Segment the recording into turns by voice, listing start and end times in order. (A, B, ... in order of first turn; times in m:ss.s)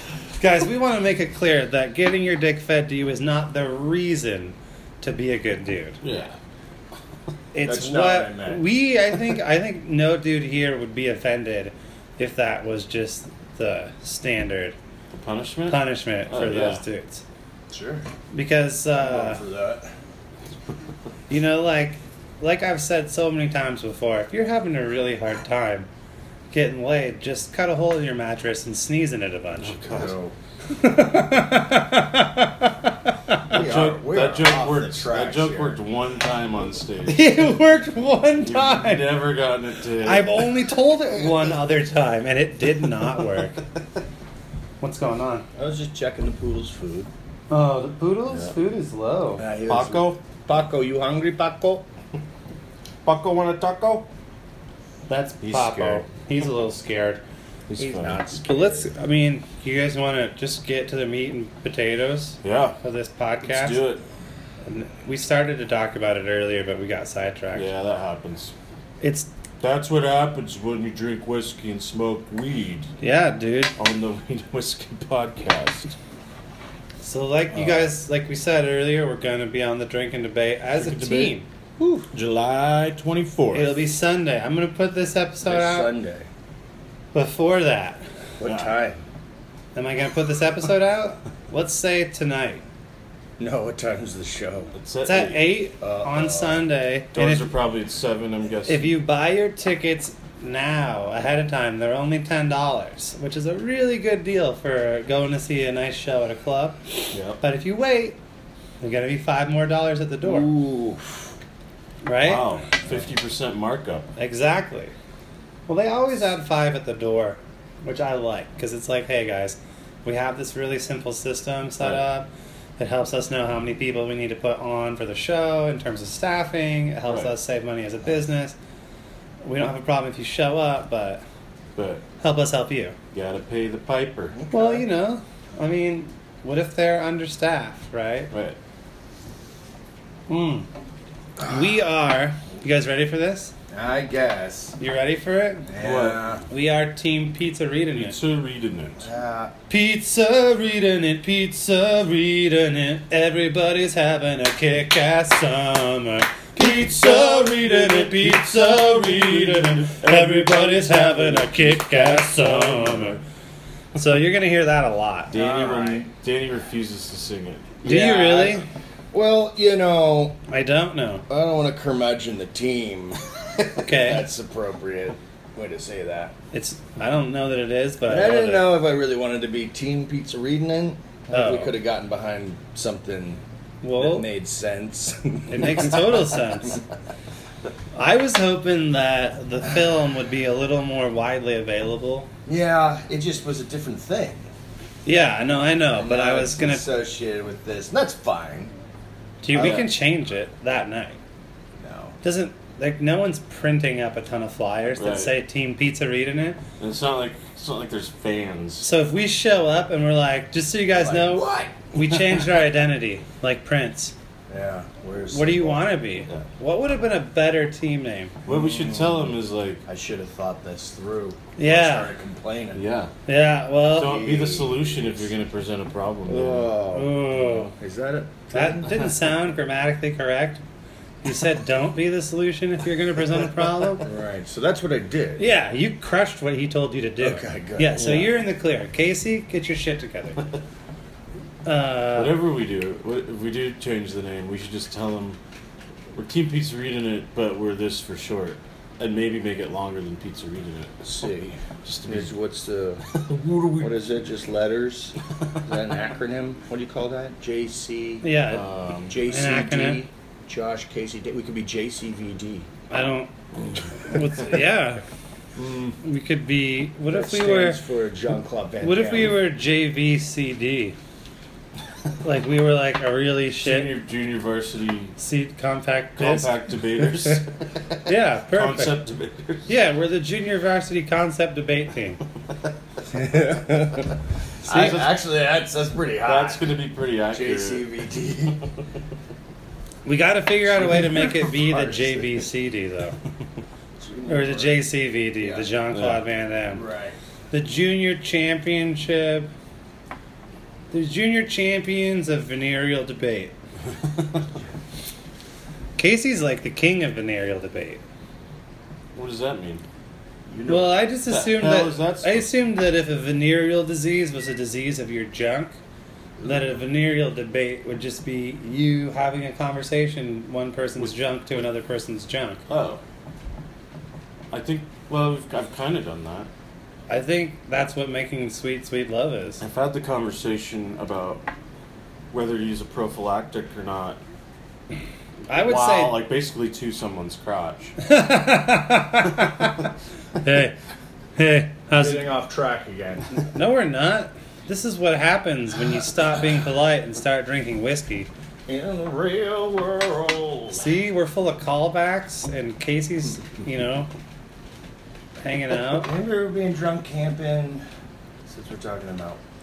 0:00.4-0:06.0 A
0:06.0-0:06.3 B
0:07.5-0:14.8 A
0:07.6-0:08.7 C
0:15.1-0:16.8 B
0:15.7-0:17.2 A
0:17.7-0:18.0 C
0:18.3-0:19.4 A
0:18.9-0:19.9 C
0:21.3-0:25.9 A
0:26.5-0:29.9 A
0:29.6-0:30.1 B
0:29.8-0:30.3 C
0:30.7-0:33.5 A
0:33.5-0:35.8 C
0:33.5-0:37.4 B
0:37.1-0:39.1 A
0:38.4-0:40.5 B
0:40.0-0:43.6 A
0:44.8-0:45.4 A
0:45.5-0:47.1 C
0:47.5-0:49.4 A
0:49.4-0:51.8 C
0:49.7-0:50.2 B
0:53.0-0:54.0 B
0:55.1-0:57.2 A
0:55.4-0:56.0 B
0:57.7-0:58.2 B
0:57.8-0:58.9 C
0:58.4-1:03.8 A
1:02.4-1:02.8 B
1:03.4-1:04.0 B
1:04.6-1:07.7 A
1:07.5-1:08.5 B
1:09.0-1:09.3 A
1:09.6-1:12.9 B
1:13.0-1:13.7 A
1:13.8-1:15.9 B
1:17.0-1:22.0 A
1:20.8-1:21.4 B
1:22.1-1:23.8 B
1:23.5-1:25.9 A
1:25.4-1:26.3 C
1:27.1-1:28.0 A
1:28.4-1:29.0 C
1:28.4-1:28.7 B
1:29.7-1:32.6 A
1:33.4-1:34.7 C
1:34.7-1:35.5 B
1:35.0-1:37.5 A
1:35.8-1:36.6 C
1:37.1-1:38.9 B
1:38.6-1:48.2 A
1:47.1-1:47.4 B
1:48.8-1:50.5 A
1:50.2-1:51.2 C
1:52.0-1:52.4 A
1:52.2-1:54.1 B
1:54.2-1:54.9 A
1:55.7-2:08.6 A
2:01.8-2:02.0 B
2:07.1-2:07.3 B
2:09.4-2:11.2 A
2:11.7-2:12.0 B
2:12.2-2:13.0 A
2:13.1-2:14.3 B
2:14.3-2:14.9 C
2:14.5-2:18.3 A
2:18.3-2:18.6 B
2:20.3-2:20.7 A
2:21.4-2:21.7 C
2:21.4-2:23.5 A
2:23.7-2:24.8 C
2:24.8-2:25.7 A
2:25.7-2:26.4 C
2:25.8-2:26.2 B
2:26.5-2:28.2 A
2:27.9-2:29.0 B
2:29.0-2:29.5 C
2:29.7-2:43.2 A
2:36.6-2:43.2 B
2:44.0-2:45.3 A
2:45.3-2:47.8 B
2:45.3-2:46.1 C
2:47.8-2:48.6 A
2:47.8-2:50.4 C
2:50.5-2:51.2 A
2:51.3-2:53.2 C
2:53.8-2:54.3 A
2:53.8-2:56.3 C
2:56.5-2:58.7 A
2:58.0-3:03.4 C
3:01.3-3:01.7 A
3:03.8-3:04.3 A
3:04.0-3:06.2 C
3:05.5-3:06.8 A
3:07.9-3:12.3 A
3:12.4-3:14.4 C
3:15.0-3:16.8 A
3:15.9-3:18.7 C
3:19.4-3:21.2 A
3:19.5-3:19.9 B
3:21.8-3:22.2 C
3:22.2-3:26.6 A
3:25.0-3:25.3 B
3:26.8-3:28.8 B
3:28.8-3:34.1 A
3:30.9-3:31.8 C
3:34.5-3:35.8 C
3:35.3-3:38.3 A
3:38.4-3:39.8 B
3:38.5-3:39.2 C
3:39.8-3:42.8 C
3:41.6-3:42.1 A
3:42.7-3:43.1 B
3:43.3-3:44.2 A
3:43.9-3:46.7 B
3:44.0-3:45.1 C
3:46.2-3:49.0 C
3:46.9-3:47.7 A
3:48.5-3:50.6 A
3:51.2-3:54.1 A
3:54.0-3:55.4 C
3:55.4-4:00.4 A
3:57.2-3:58.3 C
3:58.0-3:58.3 B
4:01.6-4:02.4 A
4:02.1-4:05.4 B
4:06.1-4:11.0 B
4:11.0-4:13.0 C
4:11.8-4:12.3 B
4:13.1-4:13.9 B
4:13.8-4:18.2 C
4:18.2-4:18.7 A
4:18.5-4:19.2 B
4:19.1-4:22.7 C
4:19.2-4:20.0 A
4:22.9-4:23.3 A
4:24.0-4:25.0 A
4:25.6-4:25.9 C
4:26.0-4:27.8 A
4:27.1-4:29.4 C
4:28.8-4:31.0 A
4:32.2-4:33.9 A
4:33.6-4:35.1 B
4:35.2-4:36.5 A
4:36.2-4:37.6 B
4:38.0-4:39.0 A
4:38.5-4:39.7 B
4:39.7-4:42.2 A
4:43.1-4:46.7 C
4:44.7-4:45.2 B
4:46.2-4:47.9 B
4:47.3-4:48.6 C
4:50.0-4:53.2 A
4:50.7-4:52.4 C
4:54.0-4:54.8 C
4:54.3-4:56.8 A
4:55.4-4:55.7 C
4:55.9-4:56.2 B
4:56.7-4:57.2 C
4:57.5-4:59.5 A
5:00.9-5:03.5 A
5:06.0-5:08.0 A
5:09.1-5:09.8 B
5:10.5-5:10.9 C
5:10.7-5:15.8 A
5:11.3-5:12.5 B
5:16.4-5:16.6 C
5:16.4-5:22.6 A
5:22.7-5:23.0 B
5:24.5-5:26.5 B
5:27.1-5:29.6 A
5:29.6-5:31.4 B
5:32.3-5:34.2 B
5:35.5-5:36.2 A
5:35.5-5:37.9 B
5:38.0-5:39.8 A
5:40.4-5:40.7 A
5:41.4-5:42.3 A
5:41.9-5:43.4 C
5:43.5-5:48.3 A
5:48.7-5:50.9 C
5:50.7-5:54.1 A
5:55.4-5:56.1 A
5:55.9-5:57.8 C
5:58.5-5:59.4 C